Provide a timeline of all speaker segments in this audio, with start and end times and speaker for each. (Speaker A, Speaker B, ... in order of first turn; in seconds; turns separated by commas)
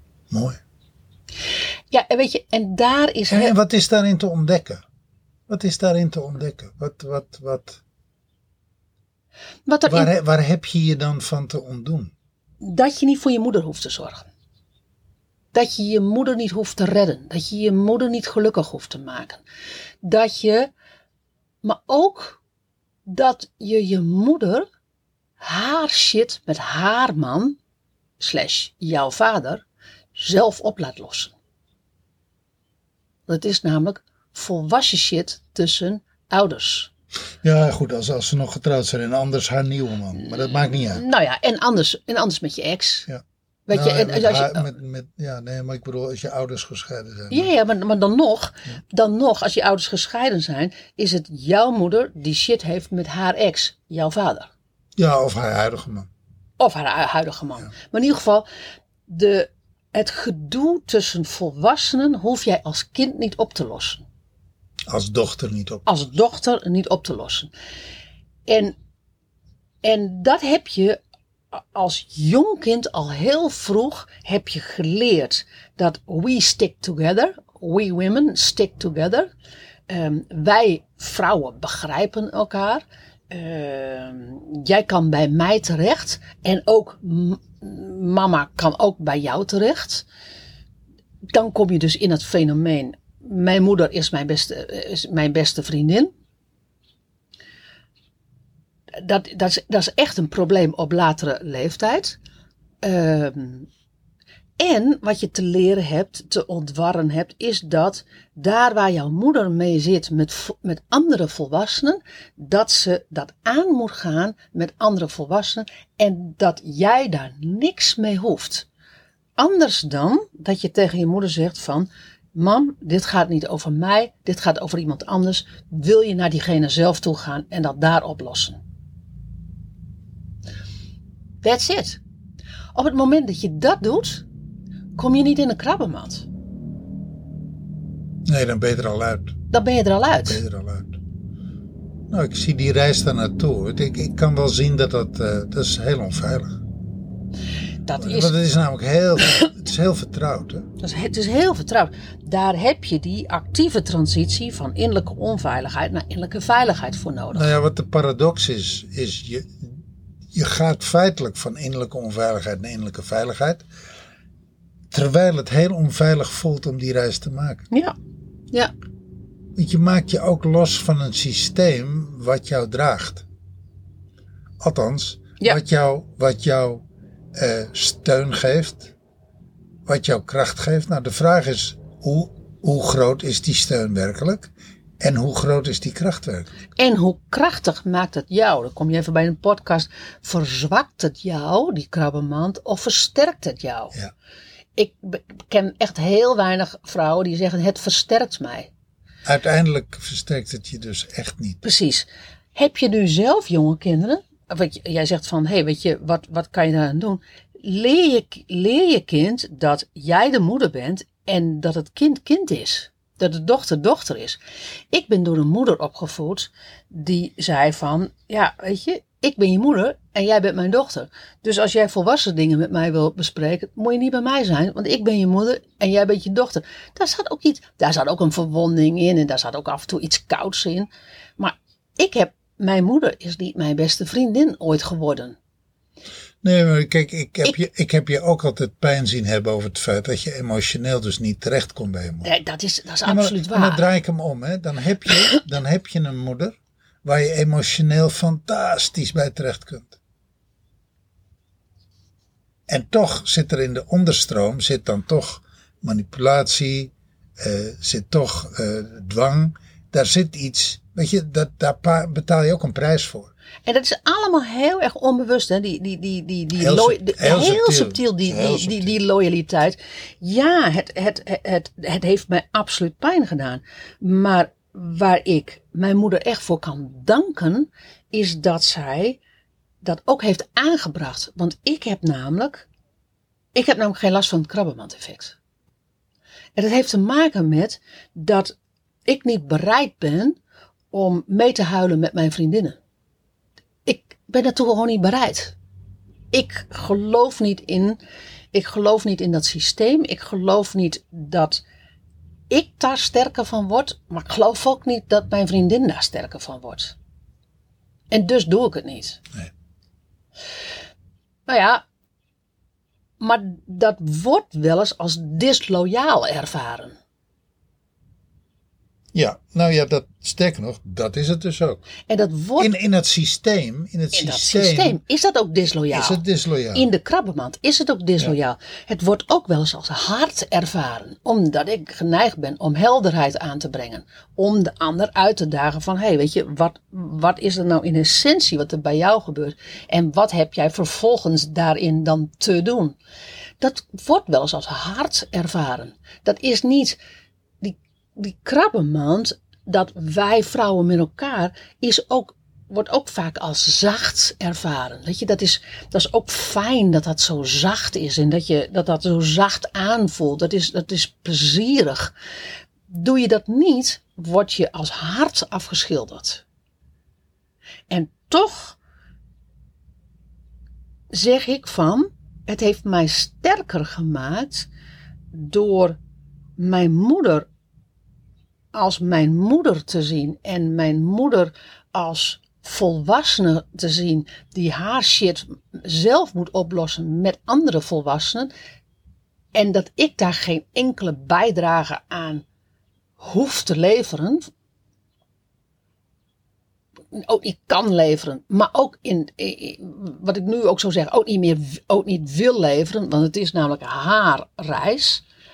Speaker A: 0.3-0.6, Speaker B: 1.9-3.5, Speaker A: 3.3-4.8, Speaker A: 5.5-7.8, Speaker B: 9.7-10.1, Speaker A: 9.9-12.1, Speaker B: 12.6-14.3, Speaker B: 15.5-19.4, Speaker B: 20.0-20.7, Speaker B: 21.6-22.4, Speaker B: 23.1-24.7, Speaker B: 25.4-27.6, Speaker B: 28.2-31.4, Speaker B: 33.3-36.9, Speaker A: 37.4-41.0, Speaker B: 40.5-43.1, Speaker A: 43.1-47.5, Speaker B: 43.7-44.7, Speaker B: 47.3-54.5, Speaker A: 55.0-56.1, Speaker B: 56.6-58.5, Speaker B: 59.1-64.1, Speaker A: 64.9-65.9, Speaker B: 65.9-67.5, Speaker B: 68.5-68.8, Speaker B: 69.8-71.0, Speaker B: 71.5-79.3, Speaker B: 79.9-90.1, Speaker B: 91.3-96.1, Speaker B: 98.9-102.2, Speaker B: 102.8-103.7, Speaker B: 104.6-118.7, Speaker B: 119.4-128.6, Speaker B: 131.4-132.0, Speaker B: 132.7-134.3, Speaker B: 135.0-136.3, Speaker A: 138.3-139.4, Speaker B: 139.5-140.4, Speaker A: 140.3-141.0, Speaker A: 142.1-146.6, Speaker B: 147.9-148.3, Speaker A: 148.0-150.7, Speaker B: 150.8-157.5, Speaker A: 157.3-159.8, Speaker A: 160.3-163.7, Speaker A: 164.9-167.7, Speaker A: 169.6-173.2, Speaker A: 174.6-176.8, Speaker A: 177.4-178.9, Speaker A: 179.9-186.6, Speaker B: 186.8-193.9, Speaker B: 194.8-198.7, Speaker A: 199.3-201.6, Speaker B: 201.6-214.4, Speaker B: 214.9-235.4, Speaker A: 236.4-242.3, Speaker B: 242.2-243.8, Speaker A: 243.1-250.0, Speaker A: 252.7-263.3, Speaker B: 263.7-279.2, Speaker A: 266.6-268.9, Speaker B: 279.8-282.7, Speaker B: 283.5-285.4, Speaker B: 286.6-288.5, Speaker B: 289.1-290.4, Speaker B: 290.9-292.8, Speaker B: 293.9-295.6, Speaker B: 296.3-298.0, Speaker B: 298.5-301.6, Speaker B: 302.5-307.0, Speaker B: 308.1-309.2, Speaker B: 311.5-311.8, Speaker B: 313.2-317.0, Speaker A: 319.1-321.9, Speaker B: 322.0-322.8, Speaker A: 322.6-325.0, Speaker B: 324.1-326.2, Speaker A: 325.9-326.9, Speaker B: 326.7-343.0, Speaker B: 343.6-347.0, Speaker B: 347.6-362.1, Speaker B: 362.9-366.4, Speaker B: 367.9-368.8, Speaker B: 371.1-374.7, Speaker B: 375.3-376.0, Speaker B: 376.6-377.5, Speaker B: 378.7-388.5, Speaker B: 389.5-392.4, Speaker B: 393.2-394.5, Speaker B: 397.1-405.2